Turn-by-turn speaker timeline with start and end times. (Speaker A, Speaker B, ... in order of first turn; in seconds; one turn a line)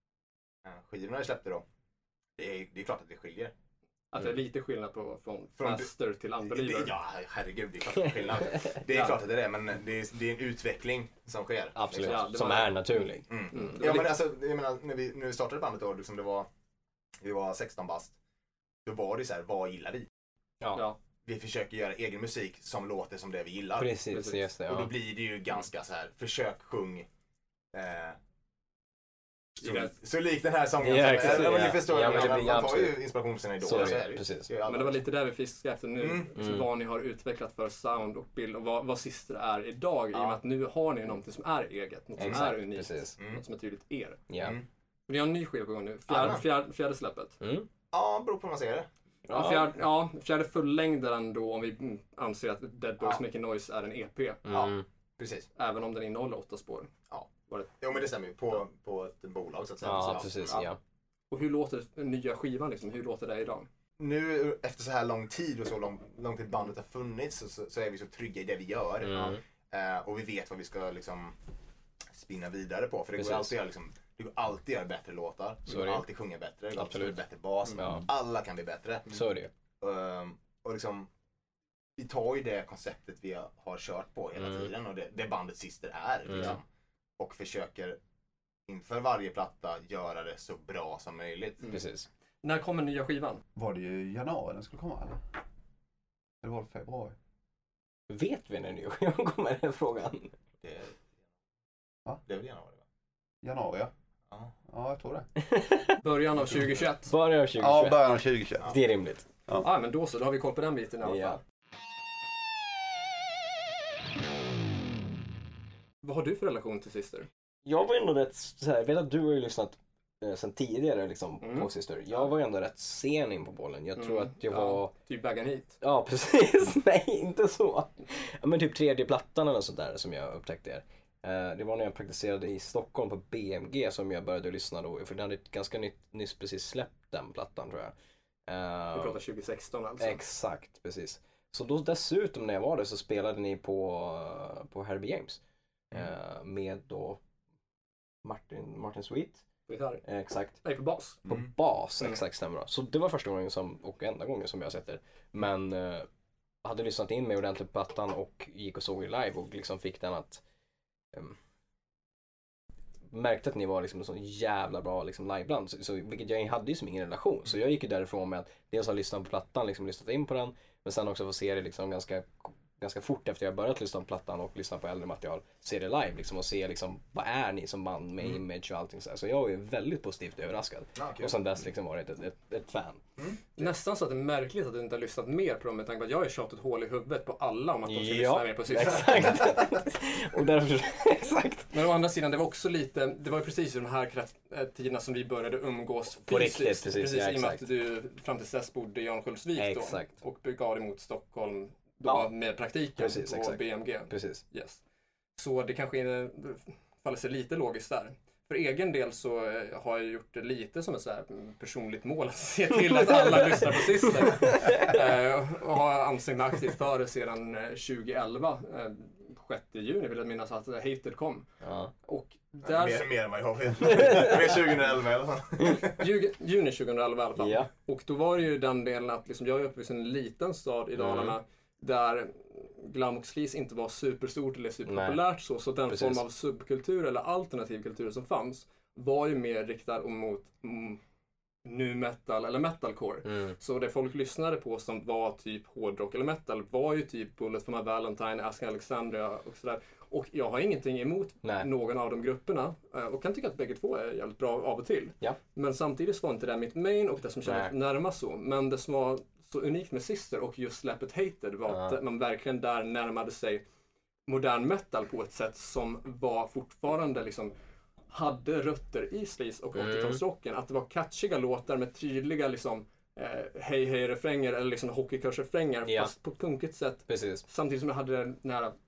Speaker A: 0.6-1.6
Speaker A: 2.4-3.5
Speaker B: 4.1-6.9
Speaker A: 5.6-5.9
Speaker A: 6.5-12.3
Speaker B: 8.9-9.2
Speaker C: 11.8-13.3
Speaker B: 11.9-12.8
Speaker A: 13.3-16.5
Speaker B: 13.5-14.2
Speaker A: 17.2-18.2
Speaker A: 18.9-20.1
Speaker A: 21.2-23.9
Speaker C: 23.8-24.9
Speaker B: 24.1-24.5
Speaker A: 24.7-27.1
Speaker A: 27.7-28.2
Speaker A: 29.6-35.0
Speaker B: 29.6-30.0
Speaker C: 30.8-33.0
Speaker B: 31.2-32.5
Speaker C: 33.6-34.5
Speaker B: 34.6-44.2
Speaker A: 36.0-36.3
Speaker C: 36.4-36.7
Speaker C: 42.2-43.1
Speaker A: 43.2-43.4
Speaker C: 44.3-44.6
Speaker A: 44.4-44.7
Speaker B: 45.1-47.4
Speaker A: 46.1-46.4
Speaker C: 47.4-47.7
Speaker A: 47.9-48.9
Speaker C: 49.3-49.7
Speaker B: 49.3-54.4
Speaker C: 54.5-54.9
Speaker A: 54.5-55.5
Speaker B: 55.6-56.9
Speaker A: 57.1-60.7
Speaker C: 59.8-60.8
Speaker B: 59.9-60.6
Speaker B: 61.3-63.7
Speaker A: 64.0-71.3
Speaker C: 69.0-69.4
Speaker A: 72.2-79.3
Speaker C: 73.2-73.5
Speaker C: 75.7-76.0
Speaker C: 76.8-77.2
Speaker B: 77.7-78.0
Speaker C: 77.7-78.1
Speaker C: 79.1-79.5
Speaker A: 79.8-81.1
Speaker A: 82.0-86.6
Speaker C: 84.4-84.7
Speaker C: 86.3-86.6
Speaker A: 87.2-88.0
Speaker A: 88.7-91.6
Speaker C: 91.7-92.1
Speaker B: 92.4-93.4
Speaker D: 93.6-95.2
Speaker D: 96.4-97.2
Speaker C: 98.1-100.3
Speaker A: 100.6-101.0
Speaker A: 102.2-102.8
Speaker D: 103.4-103.9
Speaker D: 104.7-105.3
Speaker C: 105.4-106.0
Speaker B: 106.0-107.1
Speaker C: 107.1-109.3
Speaker D: 107.5-108.8
Speaker B: 109.6-111.4
Speaker C: 111.0-111.4
Speaker B: 116.0-117.3
Speaker C: 117.7-124.9
Speaker B: 121.4-122.3
Speaker B: 124.0-125.8
Speaker C: 125.8-137.9
Speaker C: 138.5-139.2
Speaker B: 138.9-140.2
Speaker C: 140.0-145.4
Speaker C: 145.9-147.2
Speaker C: 148.2-149.4
Speaker B: 149.7-150.0
Speaker C: 150.0-150.6
Speaker B: 150.6-151.2
Speaker C: 151.2-156.1
Speaker C: 156.6-160.4
Speaker C: 163.1-183.0
Speaker A: 181.0-181.3
Speaker A: 183.2-183.4
Speaker B: 183.6-189.4
Speaker C: 187.9-191.7
Speaker B: 191.7-204.8
Speaker C: 196.2-197.7
Speaker C: 199.6-200.1
Speaker C: 203.0-204.4
Speaker B: 205.4-221.5
Speaker C: 213.0-214.9
Speaker C: 221.6-221.9
Speaker B: 222.0-223.1
Speaker A: 222.7-226.0
Speaker C: 223.9-224.3
Speaker B: 226.0-241.0
Speaker C: 227.4-227.7
Speaker C: 231.0-231.4
Speaker C: 234.9-235.2
Speaker C: 235.9-236.2
Speaker B: 241.7-263.6
Speaker C: 243.2-243.6
Speaker C: 257.4-257.7
Speaker C: 261.7-262.0
Speaker B: 264.3-267.5
Speaker B: 268.1-278.7
Speaker C: 269.8-270.2
Speaker C: 275.9-276.1
Speaker C: 277.1-277.4